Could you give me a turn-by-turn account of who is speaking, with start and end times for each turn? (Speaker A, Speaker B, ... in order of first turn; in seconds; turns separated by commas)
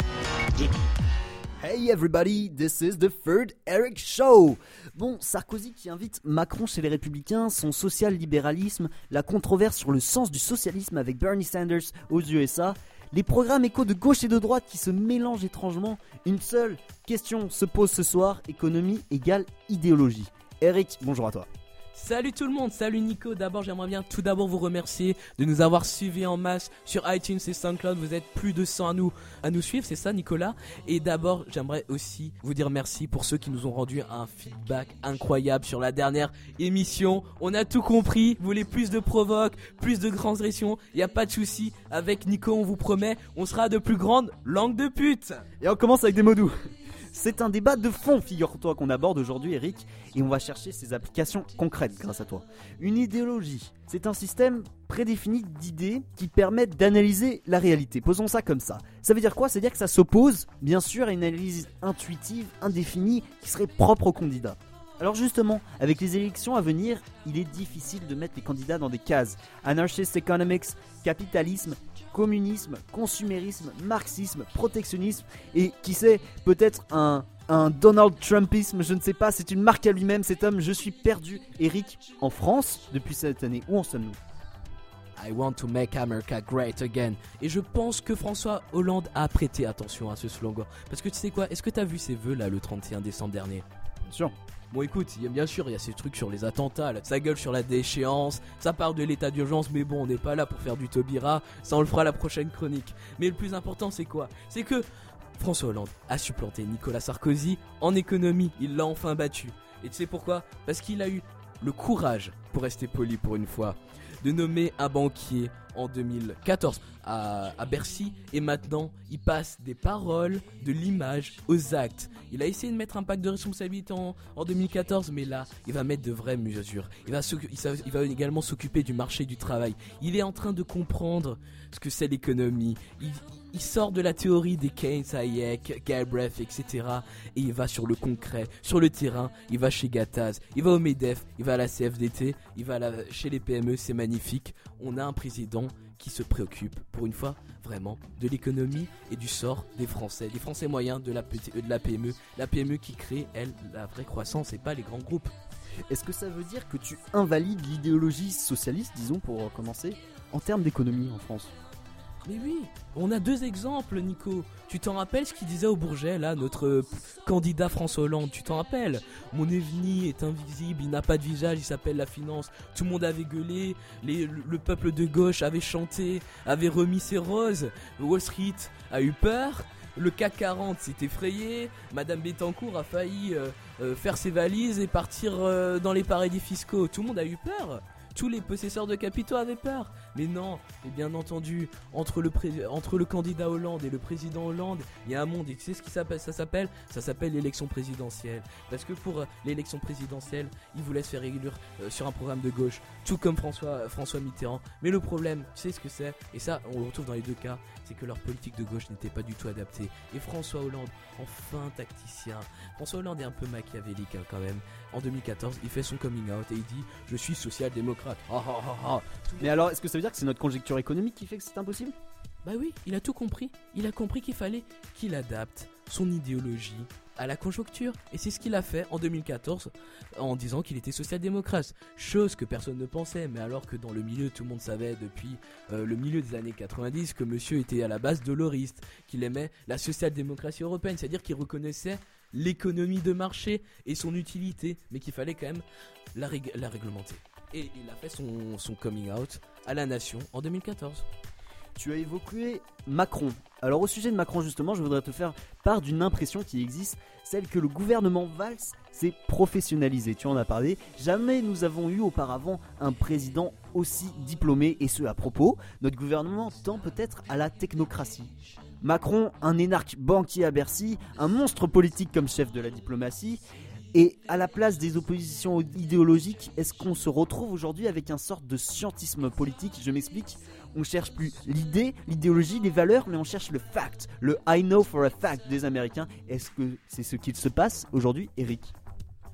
Speaker A: 1.6-21.5, Speaker B: 21.9-45.5, Speaker A: 45.6-46.5, Speaker A: 47.1-84.2, Speaker B: 85.2-93.7, Speaker A: 94.0-94.3, Speaker B: 94.7-104.9, Speaker B: 105.4-155.3, Speaker A: 155.9-161.5, Speaker B: 162.2-219.5, Speaker A: 219.4-221.9, Speaker B: 222.4-251.1, Speaker A: 251.8-273.4, Speaker A: 273.9-288.7